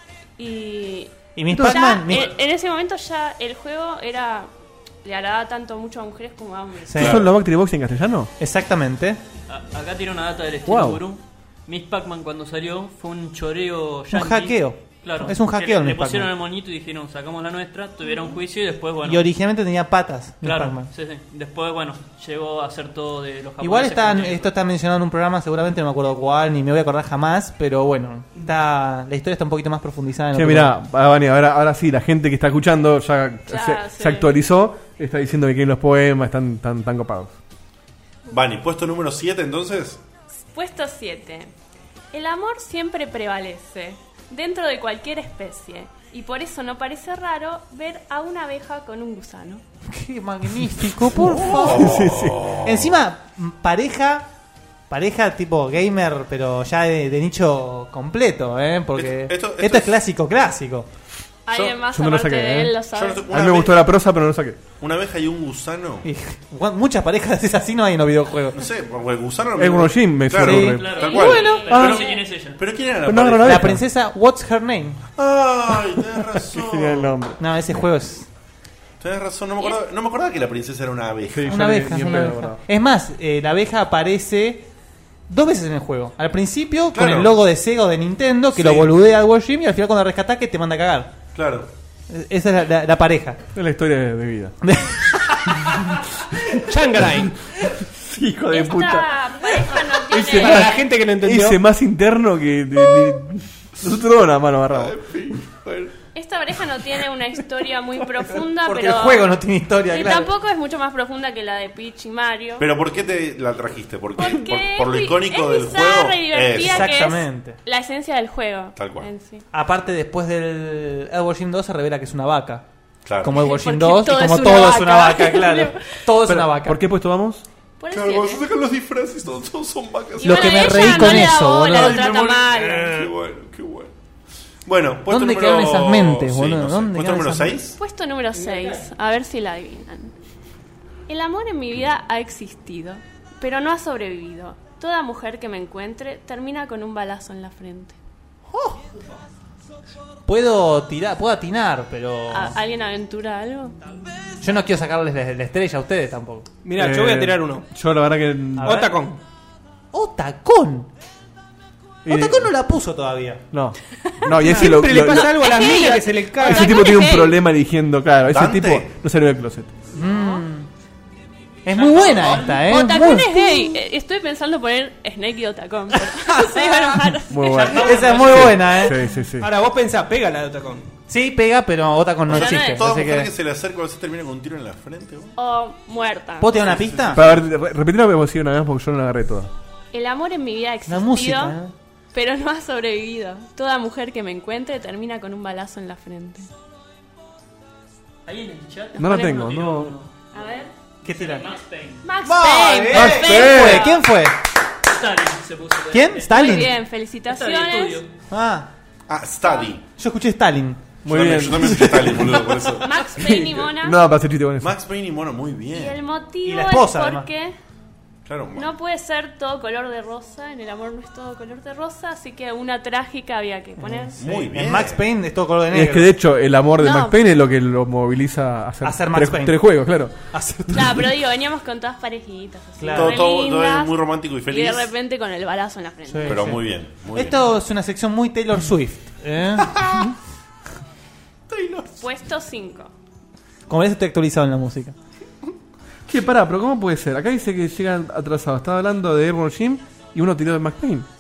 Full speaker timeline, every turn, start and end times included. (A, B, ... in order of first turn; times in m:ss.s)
0:00.4-0:04.5 A
0:01.4-0:02.3 B
0:01.5-0:01.8 C
0:05.0-0:07.1 A
0:06.9-0:07.2 B
0:06.9-0:07.3 D
0:07.0-0:08.3 C
0:08.4-0:09.2 B
0:09.5-0:19.2 E
0:10.7-0:11.0 C
0:14.1-0:16.3 B
0:19.0-0:20.9 B
0:20.4-0:24.5 E
0:23.6-0:30.7 B
0:30.3-0:37.3 C
0:33.5-0:34.3 A
0:38.3-0:40.0 D
0:40.3-0:41.5 A
0:42.1-0:49.6 A
0:49.9-0:52.0 B
0:51.2-0:53.0 D
0:51.3-0:52.6 C
0:52.6-0:54.3 B
0:54.9-1:00.9 B
0:59.0-1:00.0 D
1:01.5-1:03.3 A
1:01.9-1:02.8 C
1:02.9-1:03.8 D
1:03.3-1:04.6 C
1:04.8-1:06.1 D
1:06.0-1:08.6 B
1:08.5-1:13.8 D
1:09.6-1:11.0 C
1:10.4-1:11.6 B
1:10.7-1:12.6 E
1:11.0-1:12.0 A
1:11.7-1:12.1 C
1:13.0-1:13.8 C
1:13.4-1:15.0 B
1:15.2-1:17.2 D
1:16.4-1:17.4 C
1:17.4-1:18.3 B
1:19.0-1:21.7 D
1:21.3-1:22.6 C
1:21.5-1:24.6 B
1:25.3-1:31.1 B
1:26.9-1:27.4 D
1:28.6-1:28.9 D
1:31.4-1:31.7 D
1:32.1-1:33.4 B
1:33.6-1:34.6 C
1:34.6-1:35.9 B
1:36.6-1:37.4 F
1:37.7-1:39.1 C
1:38.5-1:40.9 A
1:40.1-1:45.0 C
1:40.3-1:41.6 F
1:44.7-1:45.9 D
1:46.2-1:49.3 A
1:48.6-1:50.3 B
1:49.9-1:52.7 A
1:52.6-1:57.0 D
1:54.2-1:59.4 A
1:56.6-1:57.6 B
1:58.8-1:59.1 D
1:59.5-2:02.6 B
2:03.0-2:03.4 D
2:03.2-2:06.8 B
2:03.3-2:06.0 A
2:06.2-2:07.4 C
2:07.8-2:08.4 A
2:07.9-2:13.9 D
2:10.2-2:13.0 A
2:10.2-2:12.1 B
2:14.7-2:17.8 D
2:15.1-2:17.6 B
2:17.8-2:20.1 A
2:21.1-2:28.0 A
2:28.5-2:28.8 B
2:30.3-2:32.6 B
2:32.3-2:33.8 A
2:34.4-2:36.5 B
2:36.6-2:37.7 F
2:36.8-2:38.8 C
2:38.6-2:39.0 B
2:38.6-2:39.2 F
2:39.9-2:40.9 B
2:42.0-2:42.5 C
2:42.1-2:43.4 B
2:43.5-2:45.3 C
2:44.4-2:47.0 F
2:44.4-2:44.7 B
2:45.0-2:47.4 A
2:46.4-2:49.7 C
2:48.3-2:48.9 D
2:49.9-2:50.7 B
2:50.0-2:50.4 A
2:51.6-2:53.8 B
2:51.7-2:52.7 E
2:52.5-2:58.0 A
2:56.3-2:57.1 B
2:57.3-2:59.5 C
2:57.6-2:58.5 E
2:57.7-2:59.0 B
2:59.4-3:00.9 F
3:01.1-3:03.3 B
3:02.3-3:05.3 D
3:02.3-3:02.9 A
3:05.4-3:06.8 A
3:06.4-3:07.2 B
3:06.6-3:07.5 D
3:07.1-3:09.5 C
3:09.9-3:11.6 A
3:10.9-3:11.7 B
3:12.1-3:16.5 A
3:18.3-3:22.0 E
3:19.0-3:20.0 C
3:19.1-3:19.5 A
3:20.3-3:20.7 A
3:21.0-3:21.5 B
3:22.0-3:24.1 A
3:22.2-3:24.4 B
3:22.9-3:23.9 C
3:24.9-3:26.7 E
3:25.9-3:26.8 B
3:26.3-3:28.0 A
3:27.3-3:28.1 E
3:28.3-3:28.7 B
3:29.1-3:29.8 D
3:30.0-3:30.8 B
3:31.0-3:34.8 C
3:31.1-3:32.9 D
3:32.8-3:34.0 A
3:34.6-3:36.0 D
3:35.7-3:37.6 A
3:36.4-3:37.3 B
3:38.3-3:38.7 D
3:38.6-3:44.2 A
3:43.8-3:46.1 B
3:44.2-3:45.0 D
3:45.7-3:50.3 C
3:46.8-3:47.2 A
3:48.8-3:49.7 B
3:50.3-3:51.0 B
3:50.7-3:56.5 A
3:52.8-3:53.2 B
3:52.9-3:54.9 D
3:56.1-3:56.6 B
3:56.2-3:57.4 D
3:57.1-4:00.1 B
3:59.7-4:00.1 D
4:01.5-4:02.0 D
4:02.0-4:02.9 A
4:03.7-4:05.0 B
4:06.1-4:11.1 C